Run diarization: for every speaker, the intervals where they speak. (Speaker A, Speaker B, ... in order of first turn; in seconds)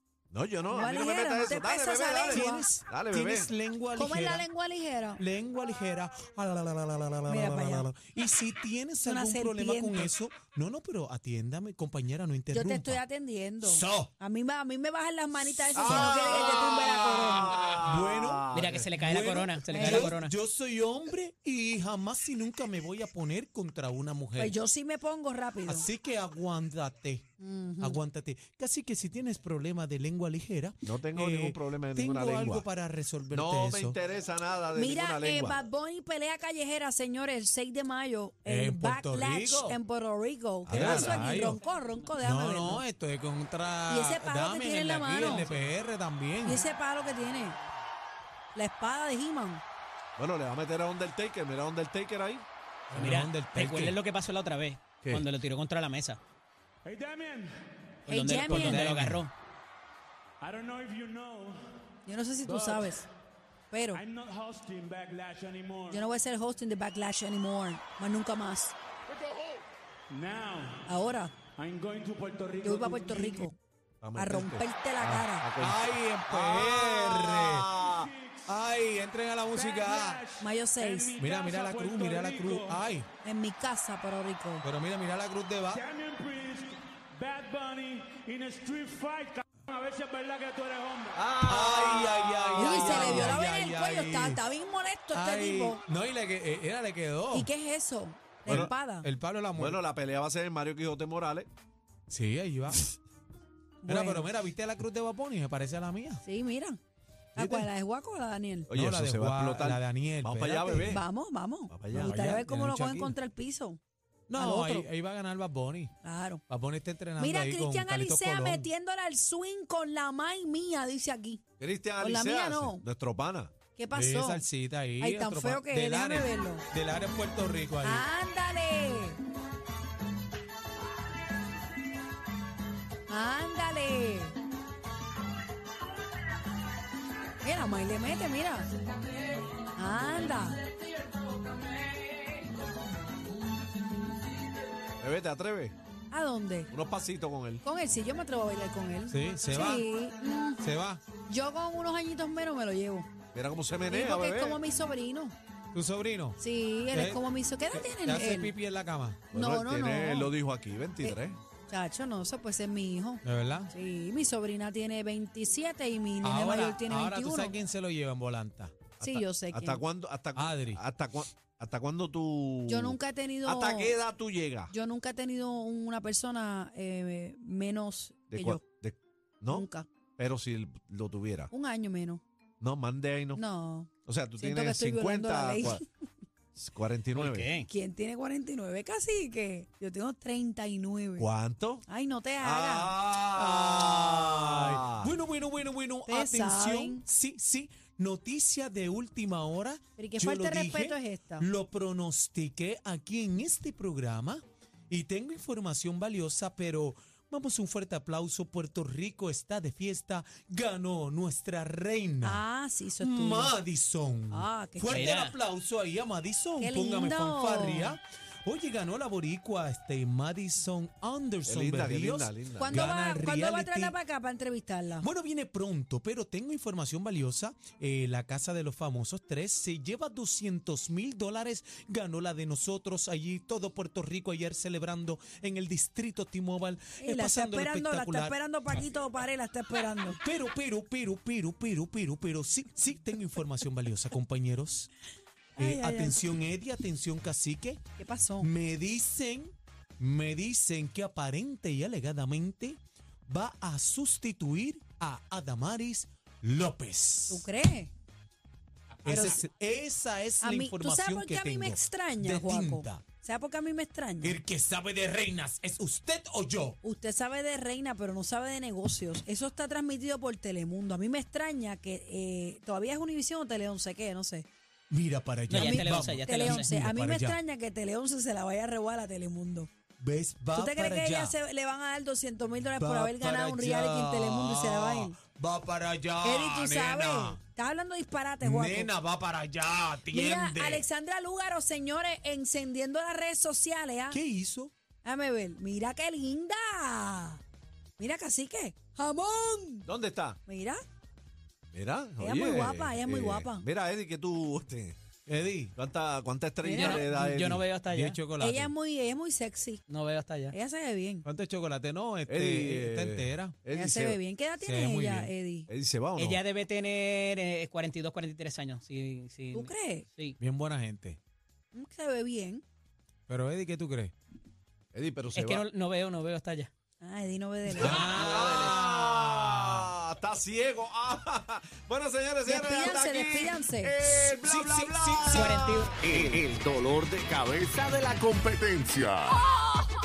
Speaker A: 0.3-3.5, 15.5-18.9, 30.8-32.6, 33.3-35.6, 40.7-41.3, 50.2-52.4, 74.0-78.1, 91.2-93.4, 99.5-101.5, 108.7-111.0, 111.7-112.1, 121.6-123.5, 145.0-145.8, 146.7-147.6, 153.3-154.6, 159.3-161.4, 169.0-174.7, 178.3-181.5, 182.6-183.4, 184.1-185.8, 186.5-187.5, 191.2-191.8, 192.4-195.1, 221.4-222.8, 299.9-300.4, 301.7-305.0, 305.8-307.7, 312.3-314.2, 315.7-316.4, 324.9-325.7, 327.7-335.9
Speaker B: 0.7-2.7, 3.9-5.2, 7.3-7.9, 9.0-10.1, 12.5-17.6, 19.7-20.1, 24.4-25.9, 27.4-28.0, 34.7-42.8, 43.9-45.5, 46.4-47.6, 48.5-49.6, 58.1-58.9, 62.0-63.0, 63.7-64.0, 65.9-68.7, 70.8-71.3, 72.6-73.5, 74.2-75.5, 80.4-81.2, 83.2-84.7, 92.6-95.8, 97.3-99.1, 103.8-104.3, 106.2-106.8, 107.3-108.7, 110.7-113.8, 114.3-114.9, 116.0-116.4, 117.2-121.4, 122.0-122.8, 123.7-124.5, 125.0-126.7, 127.8-129.2, 133.1-134.3, 137.4-138.7, 139.7-140.6, 146.1-146.7, 147.6-150.6, 151.2-153.1, 153.9-155.3, 156.4-158.5, 159.3-160.3, 161.0-167.6, 169.0-169.8, 172.7-174.0, 174.7-178.6, 179.5-179.9, 181.5-182.2, 183.3-185.8, 187.7-191.3, 191.8-192.9, 196.1-197.0, 200.0-201.5, 212.2-213.6, 214.3-215.1, 216.6-218.0, 222.6-225.1, 237.0-240.2, 245.6-246.2, 248.0-248.5, 257.3-257.9, 259.0-259.4, 260.4-264.4, 266.8-274.4, 275.6-279.7, 280.5-285.1, 286.2-288.9, 290.1-294.2, 295.0-297.4, 298.0-299.9, 300.5-300.8, 302.2-303.7, 306.6-307.1, 308.4-309.8, 310.5-311.3, 313.7-315.7, 319.5-320.1, 321.7-322.6, 327.0-328.2, 332.4-334.0
Speaker C: 2.3-4.5, 5.2-13.0, 13.6-14.1, 15.8-16.5, 17.8-24.6, 25.6-27.2, 27.8-34.0, 38.5-39.8, 40.6-41.6, 42.2-46.6, 52.9-54.0, 58.5-59.2, 75.6-77.7, 78.5-80.2, 81.2-83.1, 84.6-85.8, 91.4-94.4, 95.1-97.5, 98.5-99.8, 102.1-102.8, 103.9-106.2, 107.3-107.7, 108.7-111.0, 111.9-113.2, 114.3-115.9, 116.5-118.7, 123.9-128.1, 149.1-149.9, 150.6-151.0, 155.7-156.4, 156.9-159.2, 163.2-163.7, 166.2-168.8, 170.3-170.8, 193.3-212.4, 213.0-224.0, 224.9-238.3, 240.2-244.9, 245.6-247.8, 248.4-257.5, 259.0-263.0, 264.2-266.8, 274.9-277.4, 280.0-281.3, 282.8-287.4, 288.4-290.8, 294.1-294.7, 305.3-305.7, 307.9-308.7, 311.2-313.6, 314.6-315.3, 320.4-321.2, 323.3-324.1, 327.7-329.9, 334.2-335.6
Speaker D: 18.5-20.3, 41.4-41.8, 45.4-45.7, 52.9-56.2, 58.1-59.3, 187.1-187.7, 214.9-215.3, 275.5-276.7, 306.7-308.2, 309.9-310.5, 316.1-320.4, 325.3-326.7, 335.3-336.0
Speaker E: 56.8-57.5, 60.4-61.6, 62.4-63.0, 63.9-66.0, 70.1-70.9, 71.5-73.5, 78.0-78.4, 79.5-82.8, 85.7-91.2
Speaker F: 336.0-339.4